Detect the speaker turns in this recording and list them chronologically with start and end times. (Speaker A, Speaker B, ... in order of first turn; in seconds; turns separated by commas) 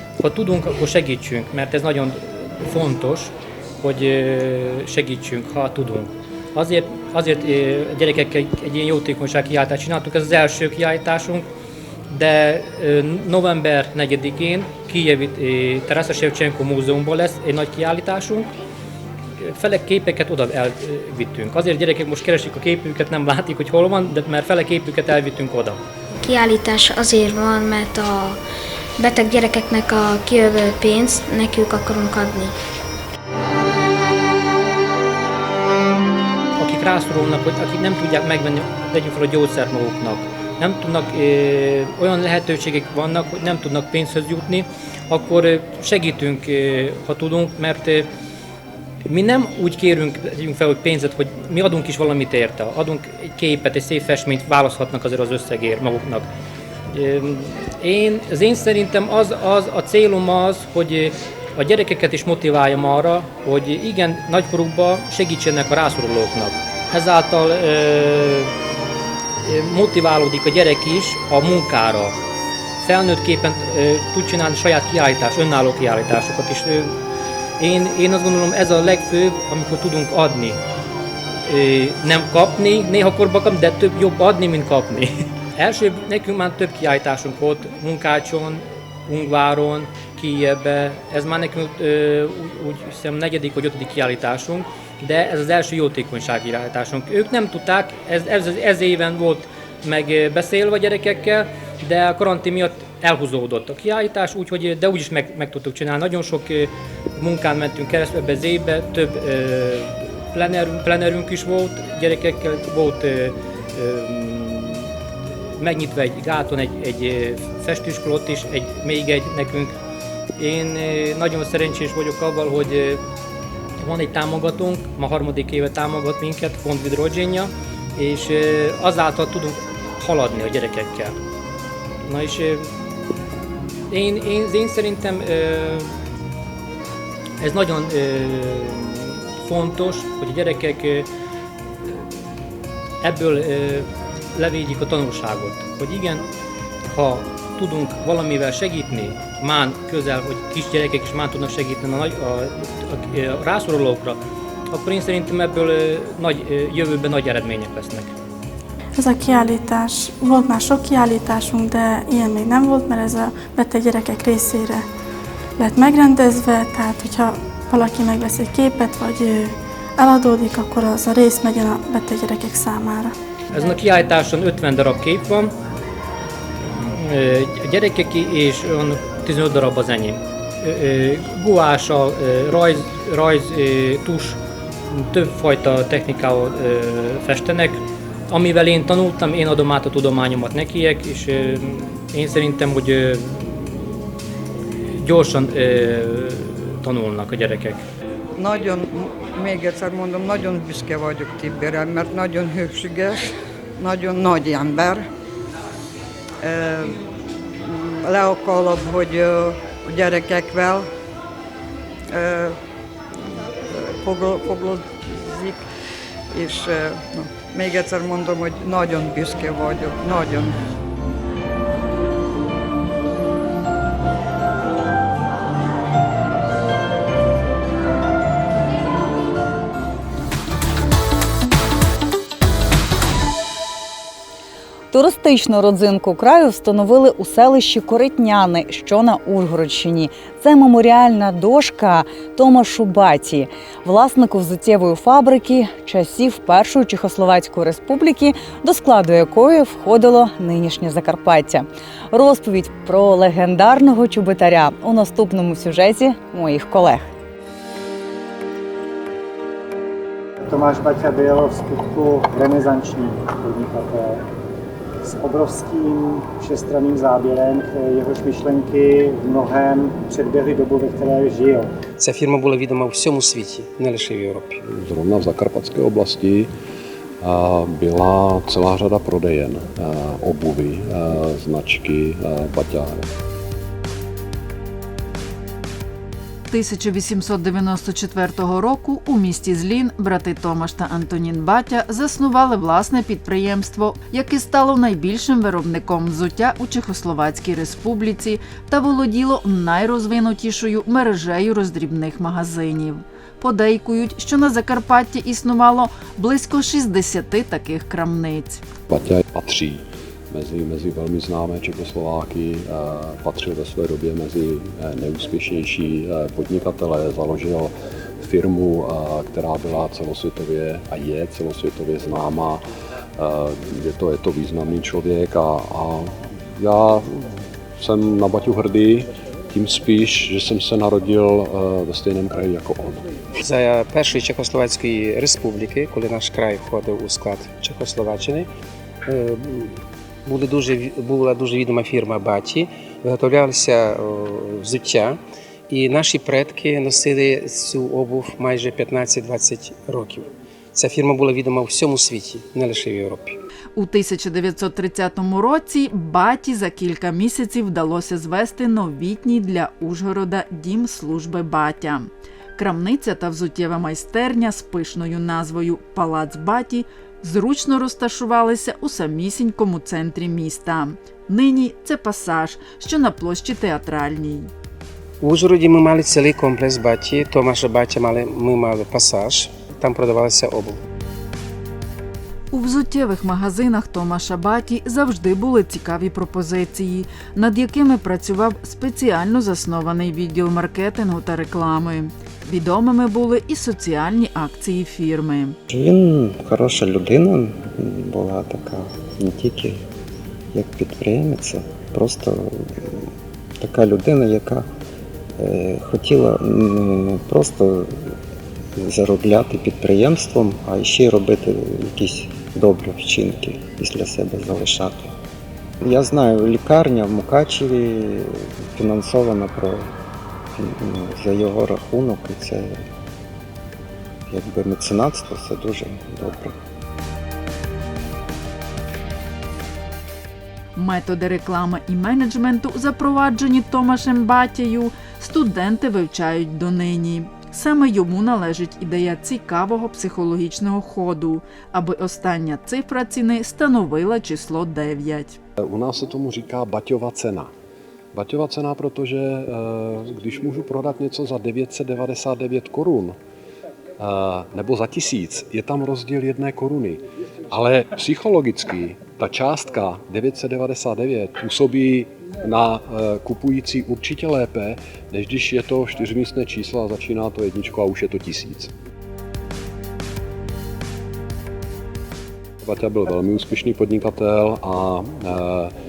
Speaker A: 0.2-11.4, Speaker A: 12.1-18.5, Speaker A: 19.4-25.8, Speaker B: 26.2-28.4, Speaker B: 29.0-32.5, Speaker A: 36.6-48.1, Speaker A: 49.1-56.3, Speaker A: 56.9-68.5, Speaker A: 69.4-72.1, Speaker A: 72.8-77.0, Speaker A: 77.6-80.6, Speaker A: 81.5-114.9, Speaker A: 115.6-119.7, Speaker A: 120.4-123.0, Speaker A: 123.8-131.2, Speaker A: 132.0-132.7, Speaker A: 133.9-135.9, Speaker A: 137.4-141.1, Speaker A: 143.0-146.2, Speaker A: 146.8-154.2, Speaker A: 154.7-158.1, Speaker C: 158.9-164.9, Speaker C: 165.6-173.2, Speaker A: 173.5-175.5, Speaker A: 176.8-193.9, Speaker A: 195.0-197.8, Speaker D: 198.3-205.0, Speaker D: 206.4-207.0, Speaker D: 207.6-210.9, Speaker D: 212.1-212.6, Speaker D: 213.6-215.6, Speaker D: 216.3-220.5, Speaker E: 234.9-257.1, Speaker F: 260.4-264.2, Speaker F: 265.0-271.7, Speaker G: 272.0-274.6, Speaker H: 274.6-276.5, Speaker H: 277.2-283.0, Speaker I: 286.5-308.6, Speaker H: 308.9-322.6, Speaker H: 323.2-333.1, Speaker G: 333.4-338.5, Speaker G: 339.1-353.4, Speaker I: 353.8-374.5, Speaker G: 375.2-380.8, Speaker I: 382.5-395.6, Speaker J: 395.7-399.8, Speaker J: 400.5-403.1, Speaker J: 403.6-404.7, Speaker J: 405.4-408.1, Speaker J: 408.8-415.1, Speaker J: 415.8-419.9, Speaker J: 420.6-422.8, Speaker J: 424.3-426.6, Speaker I: 430.8-445.4, Speaker H: 445.6-447.5, Speaker H: 448.1-453.2, Speaker H: 454.0-468.7, Speaker H: 472.6-475.7